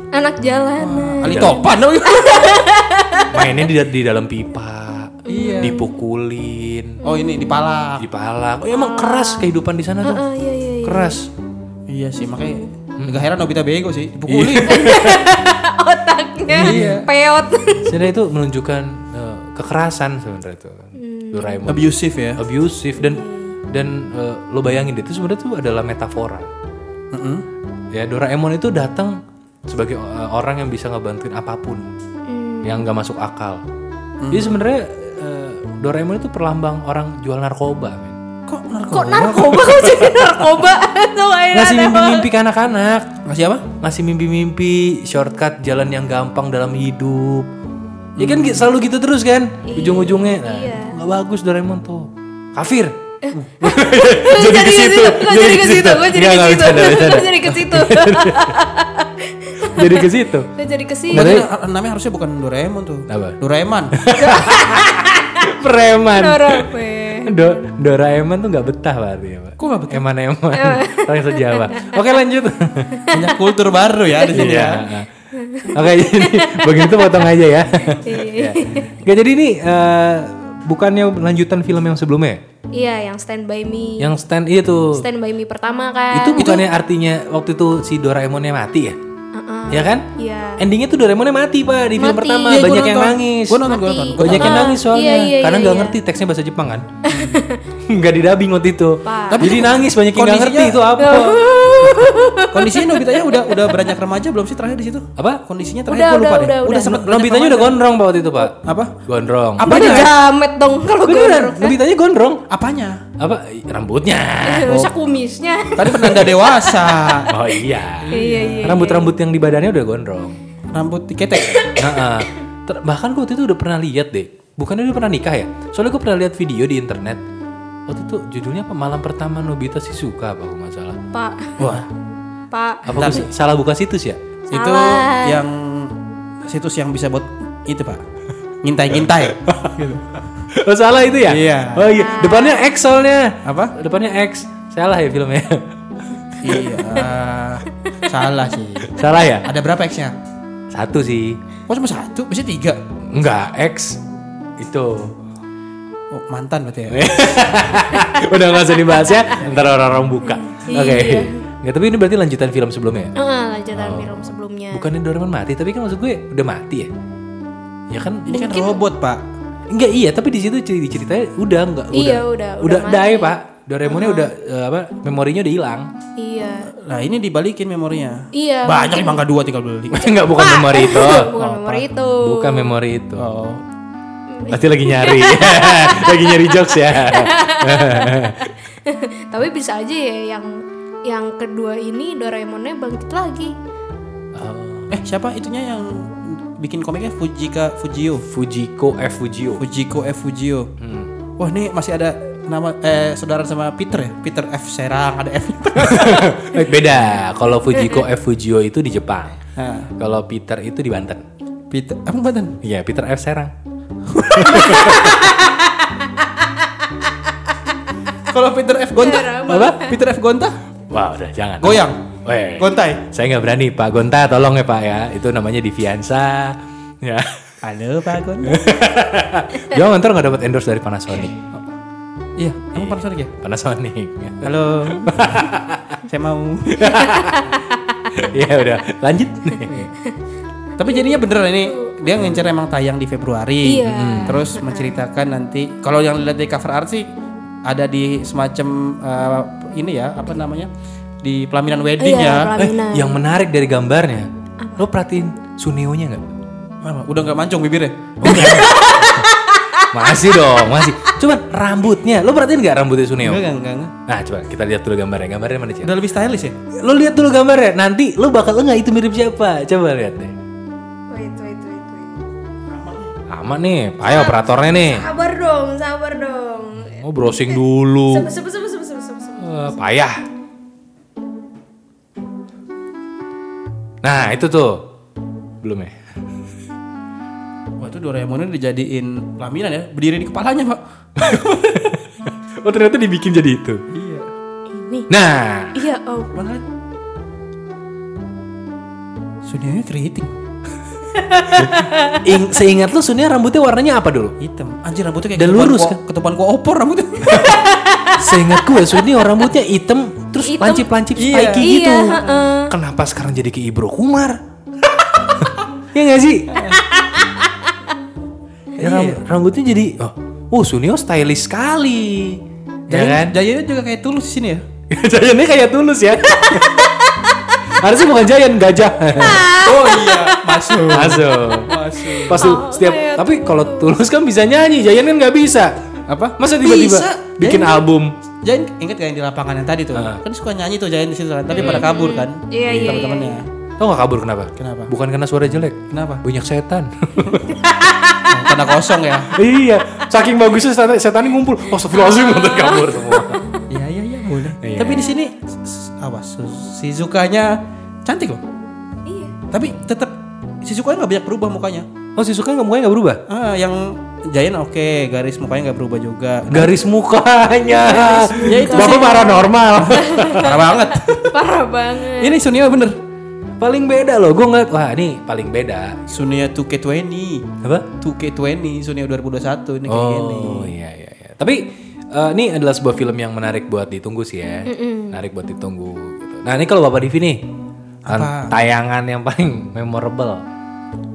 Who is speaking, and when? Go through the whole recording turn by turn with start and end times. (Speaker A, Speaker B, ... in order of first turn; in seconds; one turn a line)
Speaker A: 0.1-3.6
Speaker B: 0.8-2.6
Speaker C: 1.2-1.7
Speaker C: 3.3-7.0
Speaker A: 5.3-5.9
Speaker B: 5.3-5.8
Speaker A: 7.0-7.6
Speaker B: 7.0-8.1
Speaker C: 8.0-10.2
Speaker A: 8.6-9.5
Speaker A: 10.0-11.2
Speaker C: 10.8-11.3
Speaker B: 11.9-15.0
Speaker A: 12.2-12.7
Speaker C: 13.0-13.3
Speaker C: 14.3-15.5
Speaker A: 14.7-18.0
Speaker C: 16.5-17.0
Speaker B: 16.5-17.1
Speaker C: 17.9-26.5
Speaker A: 21.0-21.6
Speaker B: 21.6-22.4
Speaker A: 23.0-23.6
Speaker B: 27.1-27.4
Speaker C: 27.9-31.9
Speaker A: 32.3-32.9
Speaker C: 32.6-33.6
Speaker B: 34.2-34.6
Speaker C: 34.3-38.2
Speaker B: 38.5-39.8
Speaker A: 38.9-42.3
Speaker C: 39.8-40.3
Speaker C: 41.5-43.1
Speaker B: 43.2-43.7
Speaker C: 43.8-47.5
Speaker B: 48.2-48.7
Speaker C: 48.2-53.0
Speaker A: 49.7-51.0
Speaker A: 53.2-61.4
Speaker C: 53.6-58.6
Speaker C: 59.7-60.5
Speaker C: 61.1-61.5
Speaker B: 61.1-64.6
Speaker C: 63.1-63.4
Speaker C: 63.9-66.7
Speaker A: 66.2-67.4
Speaker C: 67.2-73.0
Speaker B: 69.6-70.0
Speaker A: 70.5-72.0
Speaker A: 73.0-73.4
Speaker B: 73.1-74.9
Speaker A: 74.2-74.6
Speaker C: 74.3-75.1
Speaker A: 75.3-77.4
Speaker C: 75.7-82.4
Speaker A: 78.0-79.0
Speaker A: 82.7-84.1
Speaker C: 84.0-85.1
Speaker A: 84.9-86.6
Speaker C: 86.1-89.0
Speaker B: 86.4-86.6
Speaker A: 89.3-90.6
Speaker C: 89.7-90.1
Speaker C: 90.6-96.9
Speaker A: 92.0-93.0
Speaker B: 92.5-94.7
Speaker A: 93.7-96.0
Speaker A: 97.1-97.6
Speaker B: 97.1-97.4
Speaker C: 97.9-101.5
Speaker A: 99.0-99.6
Speaker B: 99.3-100.8
Speaker A: 101.0-103.8
Speaker B: 102.5-107.8
Speaker C: 105.2-105.4
Speaker A: 105.9-107.2
Speaker C: 106.9-108.5
Speaker B: 108.6-109.0
Speaker C: 109.1-110.1
Speaker B: 109.6-110.1
Speaker A: 109.6-111.8
Speaker C: 111.0-112.4
Speaker B: 112.5-113.0
Speaker C: 113.2-114.8
Speaker A: 114.4-117.2
Speaker B: 114.7-114.9
Speaker B: 115.8-117.3
Speaker C: 117.3-118.1
Speaker B: 118.1-118.8
Speaker A: 118.1-119.1
Speaker C: 118.6-120.4
Speaker B: 120.7-121.8
Speaker A: 121.5-122.2
Speaker C: 121.8-127.2
Speaker C: 127.9-131.0
Speaker A: 131.1-131.6
Speaker B: 131.6-131.9
Speaker A: 132.5-133.2
Speaker C: 132.9-134.2
Speaker B: 132.9-133.3
Speaker B: 134.5-138.0
Speaker A: 134.5-135.4
Speaker B: 138.6-140.2
Speaker C: 139.4-139.9
Speaker C: 140.5-145.7
Speaker B: 141.2-141.9
Speaker A: 141.9-142.7
Speaker B: 143.4-143.8
Speaker B: 146.4-150.2
Speaker C: 148.8-149.5
Speaker C: 150.7-151.4
Speaker B: 151.7-152.8
Speaker C: 153.1-154.0
Speaker C: 154.6-155.2
Speaker B: 156.1-157.2
Speaker C: 156.9-163.1
Speaker A: 159.0-159.3
Speaker B: 159.4-159.7
Speaker A: 160.2-161.4
Speaker A: 163.2-164.9
Speaker C: 163.7-166.9
Speaker C: 167.9-168.4
Speaker B: 168.3-169.2
Speaker A: 168.3-168.8
Speaker C: 169.7-175.9
Speaker A: 171.9-173.3
Speaker A: 173.9-174.3
Speaker A: 176.2-176.7
Speaker B: 176.7-180.1
Speaker A: 178.3-179.2
Speaker C: 179.9-183.6
Speaker A: 180.2-182.8
Speaker B: 181.4-181.7
Speaker B: 183.2-183.6
Speaker A: 184.3-193.5
Speaker C: 184.5-188.5
Speaker C: 194.3-194.9
Speaker B: 194.9-198.3
Speaker C: 198.3-199.6
Speaker B: 199.6-200.7
Speaker C: 200.8-201.1
Speaker B: 201.4-206.5
Speaker C: 205.8-209.4
Speaker A: 207.8-208.0
Speaker B: 209.6-209.9
Speaker C: 210.0-211.2
Speaker B: 211.7-212.6
Speaker C: 212.6-213.5
Speaker B: 214.1-215.4
Speaker C: 214.3-215.3
Speaker A: 214.8-215.5
Speaker B: 218.3-220.5
Speaker A: 219.0-220.0
Speaker C: 219.5-219.8
Speaker C: 220.9-227.4
Speaker B: 221.6-222.0
Speaker B: 222.6-223.0
Speaker B: 227.6-228.6
Speaker C: 228.4-231.4
Speaker B: 232.4-233.3
Speaker C: 232.8-236.0
Speaker B: 234.4-235.4
Speaker B: 236.1-237.0
Speaker C: 236.7-237.5
Speaker A: 236.9-238.1
Speaker C: 238.1-239.9
Speaker B: 240.8-247.1
Speaker A: 240.8-242.5
Speaker A: 243.6-245.0
Speaker C: 243.9-244.5
Speaker B: 247.7-250.7
Speaker B: 251.2-252.5
Speaker A: 252.0-253.2
Speaker C: 252.6-256.2
Speaker A: 254.6-254.9
Speaker B: 256.8-259.1
Speaker C: 258.2-259.3
Speaker A: 258.3-261.1
Speaker C: 259.9-263.4
Speaker B: 263.2-263.9
Speaker C: 264.1-265.9
Speaker B: 265.8-266.6
Speaker C: 266.8-270.3
Speaker A: 271.1-272.2
Speaker B: 272.7-273.1
Speaker C: 273.3-275.1
Speaker A: 274.1-279.8
Speaker C: 276.9-278.3
Speaker C: 279.4-280.2
Speaker C: 284.0-284.9
Speaker C: 285.6-286.0
Speaker B: 287.8-291.6
Speaker C: 291.2-293.8
Speaker B: 293.9-294.3
Speaker A: 294.7-295.1
Speaker C: 295.1-295.9
Speaker A: 295.8-296.4
Speaker B: 296.3-296.6
Speaker B: 299.4-300.3
Speaker A: 301.2-302.2
Speaker C: 301.5-304.4
Speaker B: 304.4-307.7
Speaker C: 305.4-306.0
Speaker C: 307.3-307.6
Speaker A: 307.5-308.9
Speaker C: 308.1-314.4
Speaker A: 310.4-312.7
Speaker B: 311.1-311.7
Speaker C: 315.9-316.6
Speaker B: 316.5-316.8
Speaker A: 317.0-317.5
Speaker B: 318.8-319.2
Speaker C: 318.8-323.4
Speaker B: 322.9-324.6
Speaker C: 324.9-326.9
Speaker A: 326.3-327.6
Speaker C: 327.7-329.5
Speaker A: 329.2-330.4
Speaker B: 329.5-332.5
Speaker C: 330.9-331.8
Speaker A: 331.4-334.0
Speaker C: 332.3-335.8
Speaker B: 336.1-337.8
Speaker C: 336.4-338.1
Speaker B: 338.4-343.4
Speaker C: 339.9-340.2
Speaker A: 341.5-343.4
Speaker C: 341.6-341.9
Speaker C: 342.6-343.1
Speaker C: 343.8-347.6
Speaker B: 344.6-344.9
Speaker B: 345.9-346.2
Speaker A: 347.6-348.2
Speaker B: 348.3-349.3
Speaker C: 349.3-353.4
Speaker A: 351.9-353.7
Speaker B: 353.7-358.4
Speaker C: 354.6-355.1
Speaker A: 354.8-355.3
Speaker A: 359.1-359.4
Speaker B: 359.5-361.9
Speaker C: 362.2-363.2
Speaker B: 363.3-366.8
Speaker C: 366.5-370.6
Speaker A: 367.7-372.4
Speaker B: 368.4-369.4
Speaker B: 370.4-371.4
Speaker B: 372.1-373.0
Speaker C: 373.6-376.2
Speaker B: 376.1-380.7
Speaker C: 377.6-377.9
Speaker C: 379.9-387.5
Speaker A: 384.7-385.2
Speaker B: 388.1-388.5
Speaker C: 388.1-390.4